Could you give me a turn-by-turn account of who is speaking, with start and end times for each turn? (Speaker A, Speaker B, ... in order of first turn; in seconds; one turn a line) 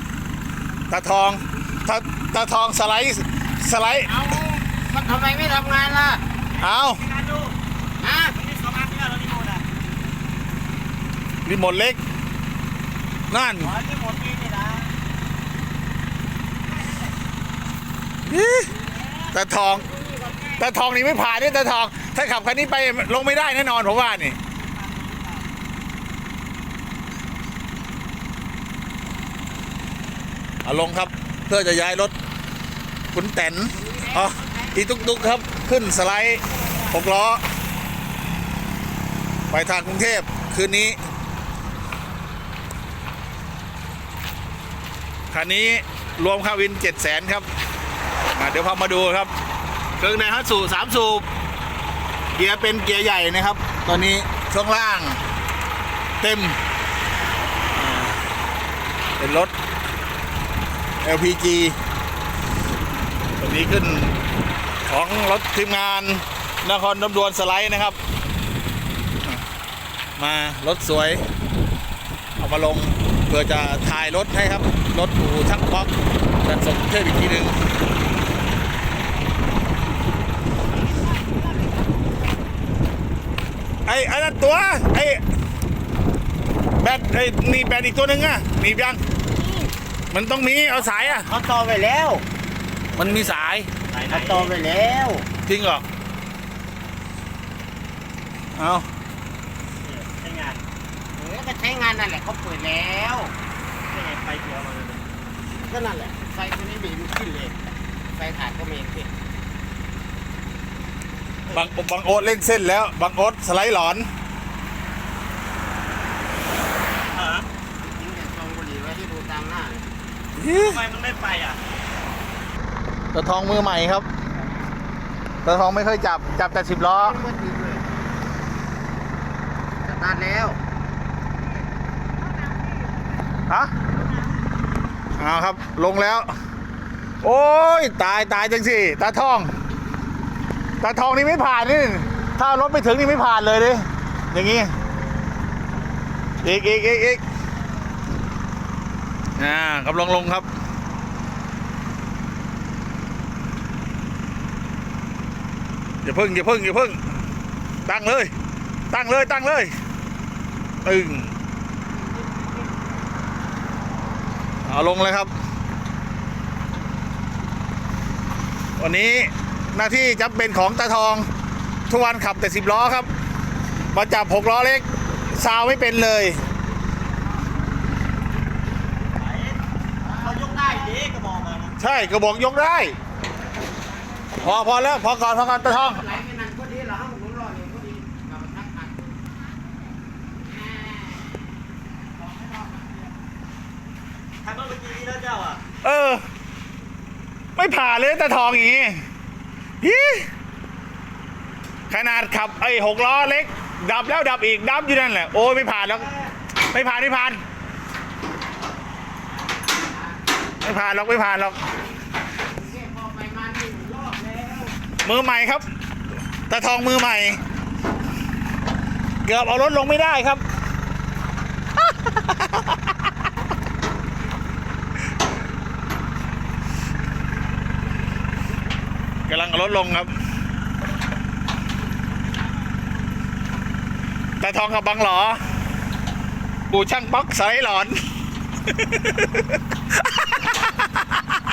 Speaker A: 0.9-4.1
Speaker B: 4.0-6.2
Speaker A: 6.6-7.0
Speaker C: 6.6-7.5
Speaker B: 8.0-8.3
Speaker C: 8.3-9.6
Speaker A: 11.4-12.0
Speaker A: 13.3-13.7
Speaker C: 13.6-14.9
Speaker C: 16.6-17.2
Speaker A: 18.3-18.7
Speaker A: 19.3-19.9
Speaker B: 19.8-20.6
Speaker A: 20.6-24.4
Speaker C: 24.8-25.4
Speaker A: 30.6-32.1
Speaker A: 33.1-37.4
Speaker B: 33.7-35.2
Speaker A: 39.5-41.0
Speaker A: 45.3-47.5
Speaker A: 48.3-49.3
Speaker A: 50.0-51.3
Speaker A: 52.3-55.2
Speaker A: 56.2-56.5
Speaker A: 57.8-58.2
Speaker A: 59.2-59.5
Speaker A: 61.0-61.8
Speaker A: 63.4-64.1
Speaker A: 64.9-68.0
Speaker A: 70.2-71.2
Speaker A: 72.4-75.9
Speaker A: 76.4-77.6
Speaker B: 81.2-81.7
Speaker A: 83.9-85.2
Speaker A: 86.8-89.0
Speaker A: 90.1-91.3
Speaker B: 90.9-92.2
Speaker A: 93.0-93.7
Speaker C: 93.0-93.3
Speaker C: 93.9-94.5
Speaker B: 94.1-95.3
Speaker A: 95.5-95.8
Speaker A: 98.5-98.9
Speaker C: 99.8-100.6
Speaker B: 101.2-103.3
Speaker C: 103.9-105.0
Speaker B: 105.6-107.6
Speaker B: 108.1-109.1
Speaker A: 111.5-114.1
Speaker C: 117.1-117.5
Speaker B: 117.8-119.8
Speaker A: 120.4-120.8
Speaker C: 120.5-121.6
Speaker A: 123.1-124.1
Speaker A: 125.4-127.2
Speaker B: 126.9-127.8
Speaker B: 129.8-130.6
Speaker A: 135.2-136.3
Speaker A: 137.2-139.5
Speaker A: 140.8-144.7
Speaker A: 146.4-147.2
Speaker A: 149.4-150.5
Speaker A: 156.0-157.0
Speaker A: 157.8-158.3
Speaker A: 158.9-159.7
Speaker A: 160.8-161.3
Speaker B: 162.2-162.5
Speaker A: 164.7-165.3
Speaker A: 168.8-171.3
Speaker A: 171.9-173.1
Speaker A: 173.9-176.4
Speaker C: 179.1-179.6
Speaker B: 180.0-180.9
Speaker C: 180.2-181.8
Speaker A: 181.8-183.0
Speaker A: 184.4-186.1
Speaker B: 185.7-189.2
Speaker B: 190.4-191.5
Speaker C: 194.4-195.6
Speaker A: 195.8-196.2
Speaker A: 197.6-199.0
Speaker A: 199.8-200.3
Speaker A: 201.9-206.1
Speaker A: 206.7-207.4
Speaker B: 209.8-210.2
Speaker A: 210.6-211.6
Speaker B: 212.5-214.7
Speaker A: 215.0-215.7
Speaker A: 216.5-217.4
Speaker A: 219.2-220.4
Speaker A: 222.0-222.7
Speaker A: 229.3-230.1
Speaker A: 234.4-235.4
Speaker A: 236.7-238.0
Speaker A: 238.6-241.0